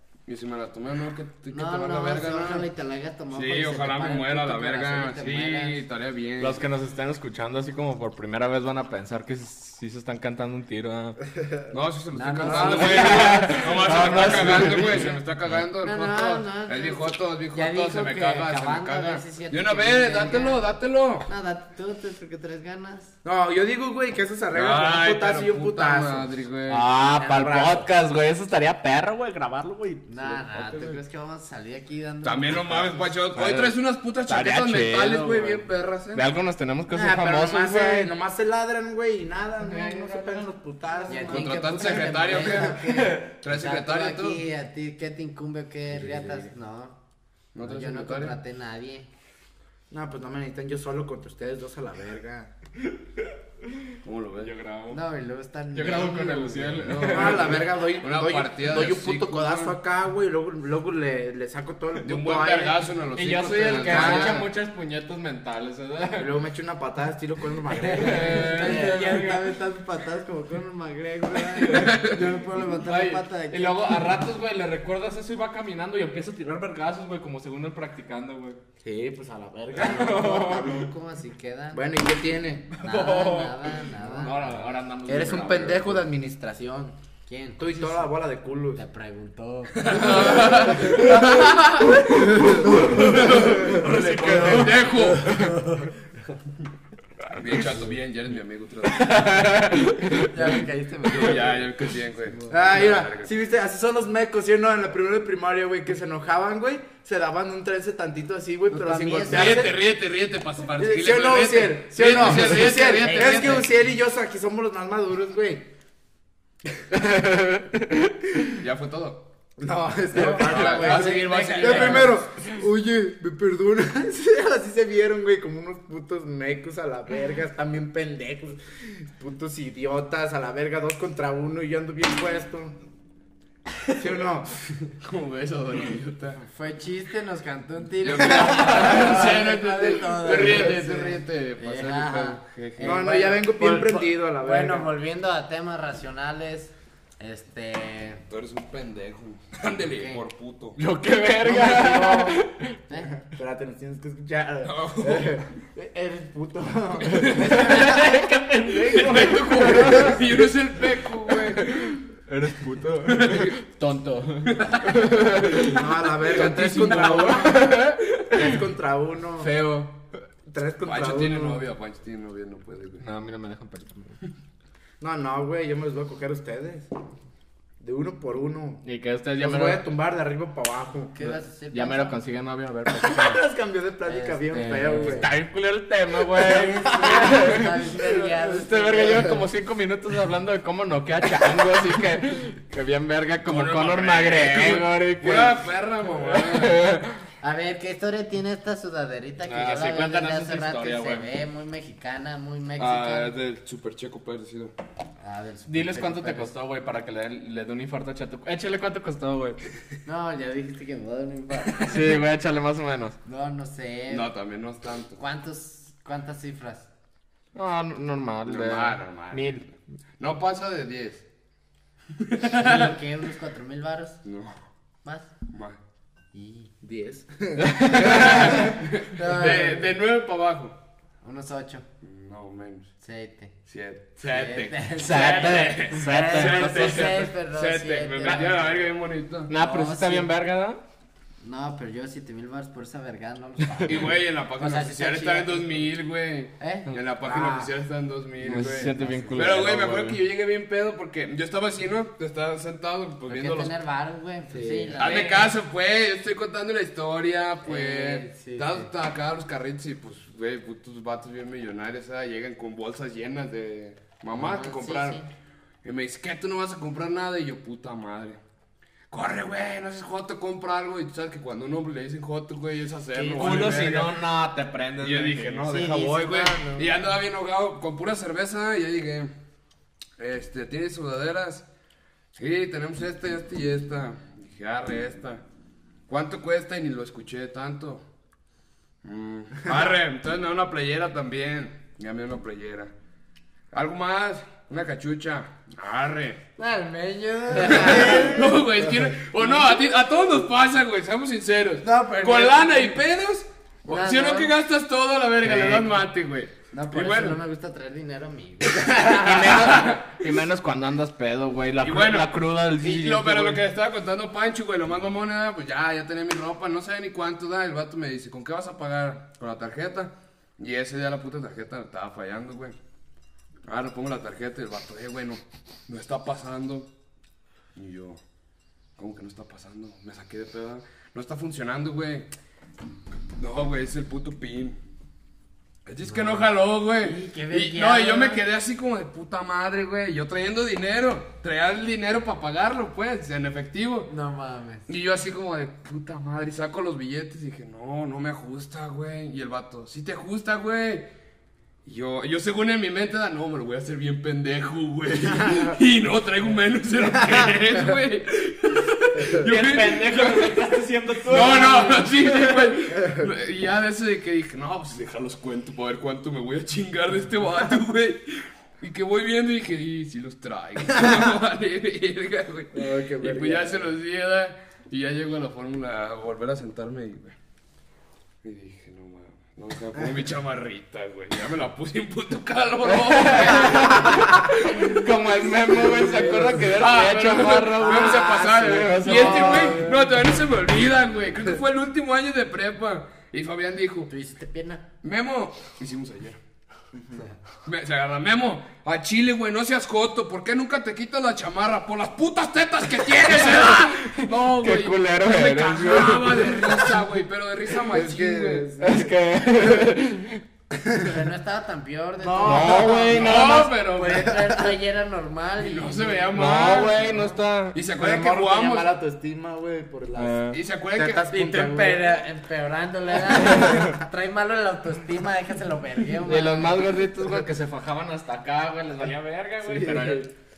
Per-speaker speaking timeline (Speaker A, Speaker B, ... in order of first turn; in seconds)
Speaker A: 0.3-2.7, 3.3-6.6, 11.7-21.3, 24.5-26.9, 32.2-36.3, 41.3-44.4, 47.5-48.4, 54.0-54.5, 56.7-59.7, 62.0-64.5, 71.6-72.2, 89.8-95.3, 97.3-99.4, 101.1-103.3, 109.2-113.7, 118.5-119.3, 120.2-122.2, 135.0-136.4, 138.0-143.0, 148.3-150.8, 154.6-155.4, 157.1-158.0, 158.8-161.8, 163.1-163.6, 164.5-165.6, 166.3-167.4, 170.8-173.1, 193.4-196.8, 202.8-204.7, 214.1-215.2, 218.4-219.6, 220.2-221.2, 222.2-223.0, 224.2-224.6, 225.5-225.8, 228.0-230.8, 232.0-232.9, 233.7-239.5, 243.8-253.7, 255.0-265.2, 265.8-268.4, 269.1-274.2, 275.0-279.3, 280.2-281.7, 282.4-285.4, 286.1-288.0, 289.0-292.9, 293.7-296.4, 297.6-307.4, 308.8-310.0, 311.8-322.8, 323.6-326.9, 327.8-328.2, 329.0-332.3, 333.4-334.8, 335.9-344.1, 344.9-351.1, 351.9-377.4, 378.4-394.1, 395.0-396.4, 397.6-408.7, 413.1-414.3, 415.6-417.0, 417.7-418.9, 420.5-421.3
Speaker B: 1.5-5.8, 12.1-20.7, 21.3-23.1, 30.1-33.1, 41.1-47.0, 47.6-49.1, 54.9-56.8, 67.8-74.2, 79.8-81.9, 82.8-84.7, 87.3-88.1, 88.7-90.8, 94.1-95.9, 100.2-101.7, 108.7-109.7, 112.3-113.7, 120.1-122.2, 136.5-148.2, 149.9-150.2, 151.6-152.4, 181.2-182.2, 184.1-185.3, 186.4-189.3, 197.4-203.3, 205.2-206.5, 210.1-212.2, 213.2-214.3, 215.2-216.9, 222.4-224.2, 225.0-225.3, 226.3-226.7, 229.1-229.9, 231.2-231.9, 233.0-233.5, 234.2-238.7, 239.5-240.3, 241.4-245.8, 246.6-246.9, 248.5-249.7, 253.3-255.5, 257.6-258.9, 264.4-265.3, 273.1-273.9, 275.7-277.0, 296.6-298.6, 301.8-302.9, 303.9-304.5, 306.7-309.7, 336.1-336.5, 337.0-338.4, 344.1-344.9, 387.9-389.9, 394.1-394.8, 410.9-416.4, 417.0-417.4, 421.3-426.9
Speaker C: 6.4-11.2, 12.7-15.1, 26.7-31.0, 33.3-33.8, 34.3-38.1, 39.6-40.5, 42.8-43.1, 54.4-55.0, 55.7-57.6, 63.2-66.3, 67.9-69.5, 71.5-72.0, 72.7-78.6, 79.8-80.9, 82.8-86.0, 93.0-95.7, 98.9-100.3, 116.9-118.5, 120.2-121.0, 121.6-122.1, 138.7-139.2, 150.8-152.8, 157.1-160.5, 161.3-168.6, 169.4-170.0, 173.0-174.2, 178.8-179.8, 181.7-183.4, 184.5-187.7, 188.4-197.2, 199.4-201.3, 205.7-209.6, 211.8-213.2, 217.6-219.7, 227.6-228.7, 235.0-237.3, 238.2-238.6, 239.5-240.8, 243.8-244.0, 248.4-250.2, 273.4-275.8, 305.4-305.9, 309.0-313.6, 359.3-362.8, 382.9-389.9, 403.2-407.0, 408.8-410.4, 412.4-413.8, 416.3-417.8, 420.2-420.6, 423.3-423.9, 426.2-430.3
Speaker D: 12.5-13.4, 23.2-26.3, 27.1-27.9, 36.9-41.8, 49.9-52.5, 57.0-62.9, 63.8-64.5, 66.2-69.0, 78.8-80.6, 81.7-82.8, 85.1-87.0, 87.6-88.8, 92.6-94.7, 102.5-109.8, 110.8-115.7, 119.6-132.8, 134.0-134.5, 138.5-138.8, 140.3-140.9, 142.8-144.9, 151.4-152.4, 153.2-158.3, 159.6-160.2, 165.5-169.5, 170.5-171.7, 175.0-176.9, 177.8-178.8, 179.4-181.3, 182.9-185.3, 186.9-188.3, 188.9-189.4, 226.8-228.7, 247.2-247.7, 254.5-255.0, 297.8-298.6, 363.0-363.2, 372.7-373.9, 386.0-386.6, 388.2-390.1, 396.9-397.2, 407.9-409.9, 410.8-411.1, 412.2-413.5, 414.3-414.7, 417.9-420.4, 420.9-422.1, 429.6-430.3